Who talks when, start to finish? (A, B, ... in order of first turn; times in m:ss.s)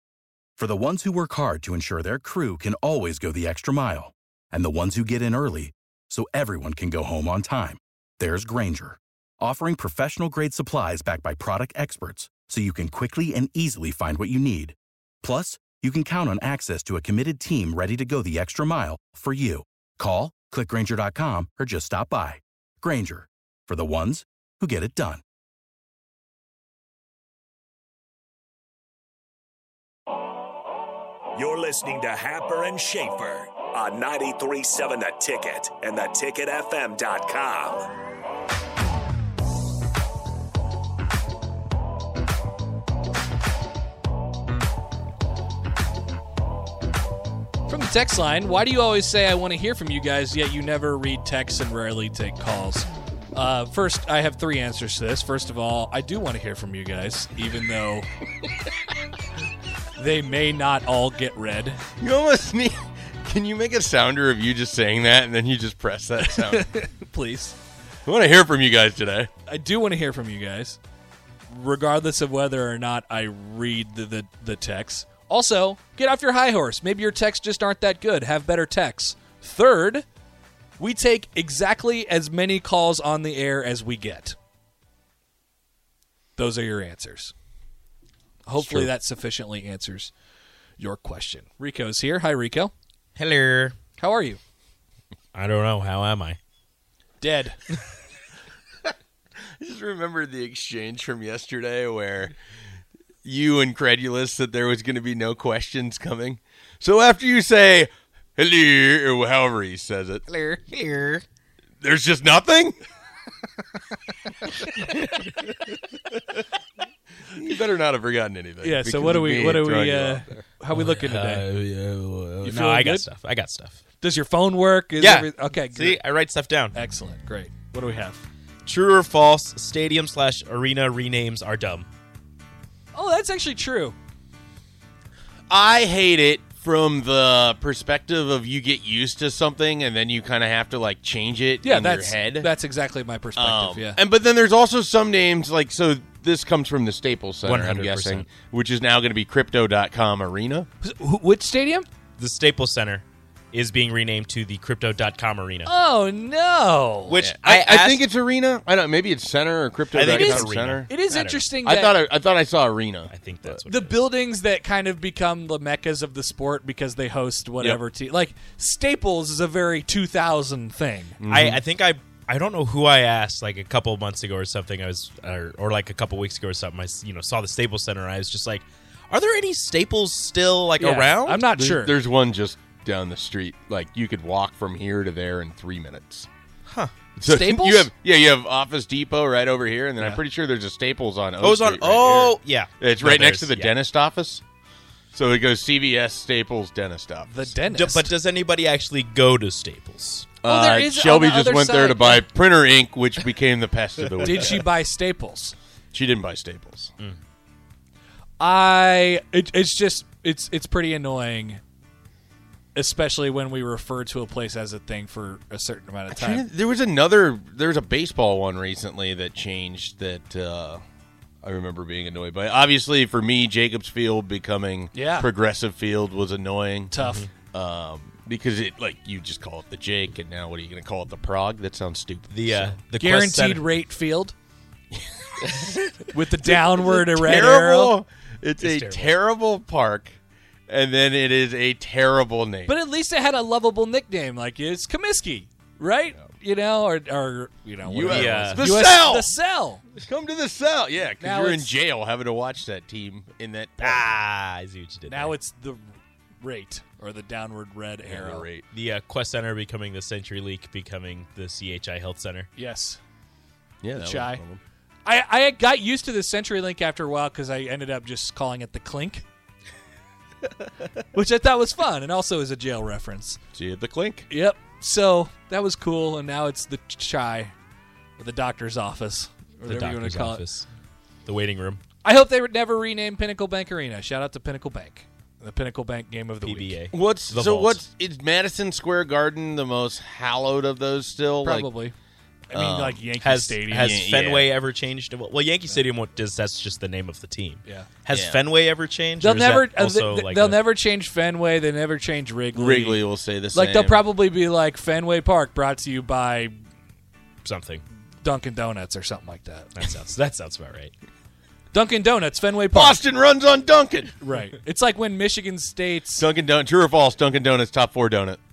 0:00.6-0:25.2 A
0:31.4-0:37.8 B
0:47.7-0:58.1 C
1:00.0-1:01.8 C
1:02.0-1:06.6 D
1:06.2-1:07.6 C
1:08.1-1:09.3 D
1:09.5-1:10.8 C
1:11.5-1:20.0 C
1:20.8-1:24.4 C
1:26.4-1:27.3 C
1:28.5-1:30.1 C
1:28.6-1:28.9 E
1:30.8-1:32.7 C
1:33.2-1:33.8 E
1:34.0-1:34.4 C
1:35.3-1:36.4 E
1:37.2-1:37.6 C
1:39.6-1:42.3 D
1:43.2-1:50.5 D
1:50.7-1:51.2 E
1:51.8-1:52.8 D
1:54.6-1:55.7 E
1:57.3-2:00.4 D
1:58.6-2:01.5 C
2:00.7-2:03.8 E
2:02.4-2:03.1 C
2:04.0-2:06.0 C
2:05.0-2:06.8 E
2:06.7-2:08.2 C
2:08.6-2:11.9 E
2:12.9-2:14.0 C
2:15.5-2:22.5 D
2:21.6-2:24.0 C
2:23.4-2:30.7 D
2:27.4-2:28.3 E
2:30.8-2:31.9 C
2:32.2-2:35.7 E
2:35.7-2:37.2 C
2:37.1-2:38.1 E
2:37.2-2:40.9 D
2:39.9-2:41.5 E
2:40.1-2:42.0 C
2:41.6-2:43.6 D
2:43.1-2:44.0 E
2:43.7-2:51.2 C
2:51.2-2:51.6 D
2:51.3-3:01.4 E
3:00.8-3:01.9 C
3:01.5-3:06.3 D
3:06.7-3:06.9 E
3:07.2-3:07.9 C
3:07.2-3:14.4 D
3:11.4-3:13.8 E
3:15.1-3:17.5 D
3:17.3-3:18.1 C
3:17.6-3:20.3 E
3:20.4-3:24.7 D
3:20.4-3:22.3 C
3:24.2-3:25.6 C
3:25.9-3:26.9 D
3:28.4-3:31.6 C
3:32.8-3:36.4 C
3:36.1-3:40.8 D
3:41.4-3:52.8 D
3:44.9-3:45.3 C
3:46.9-3:47.3 C
3:47.0-3:47.3 E
3:52.3-3:53.6 E
3:52.9-3:54.4 C
3:54.9-4:00.2 D
3:56.1-3:58.0 C
3:58.6-3:59.2 C
4:00.7-4:02.8 D
4:02.7-4:09.8 C
4:07.8-4:09.3 D
4:08.0-4:08.8 E
4:10.0-4:14.1 D
4:11.2-4:11.8 C
4:13.8-4:15.3 E
4:15.1-4:18.5 C
4:18.1-4:18.6 D
4:18.7-4:22.5 E
4:22.6-4:23.0 C
4:23.8-4:24.6 D
4:23.9-4:24.4 C
4:25.0-4:29.2 C
4:31.1-4:33.4 C
4:33.6-4:34.3 D
4:34.3-4:37.5 C
4:38.2-4:40.4 C
4:39.6-4:40.6 E
4:41.2-4:41.8 E
4:42.0-4:46.8 C
4:46.4-4:47.8 E
4:46.9-4:51.7 D
4:51.4-4:51.9 C
4:52.5-4:54.0 C
4:52.5-4:53.0 D
4:53.2-5:00.6 E
4:53.8-4:54.5 D
4:57.6-4:57.9 C
4:58.1-4:58.4 D
4:59.2-5:06.6 C
5:02.6-5:04.0 D
5:07.4-5:07.8 E
5:08.2-5:09.7 C
5:09.8-5:10.9 E
5:11.7-5:13.0 C
5:12.7-5:14.1 D
5:14.2-5:16.3 C
5:16.2-5:18.4 D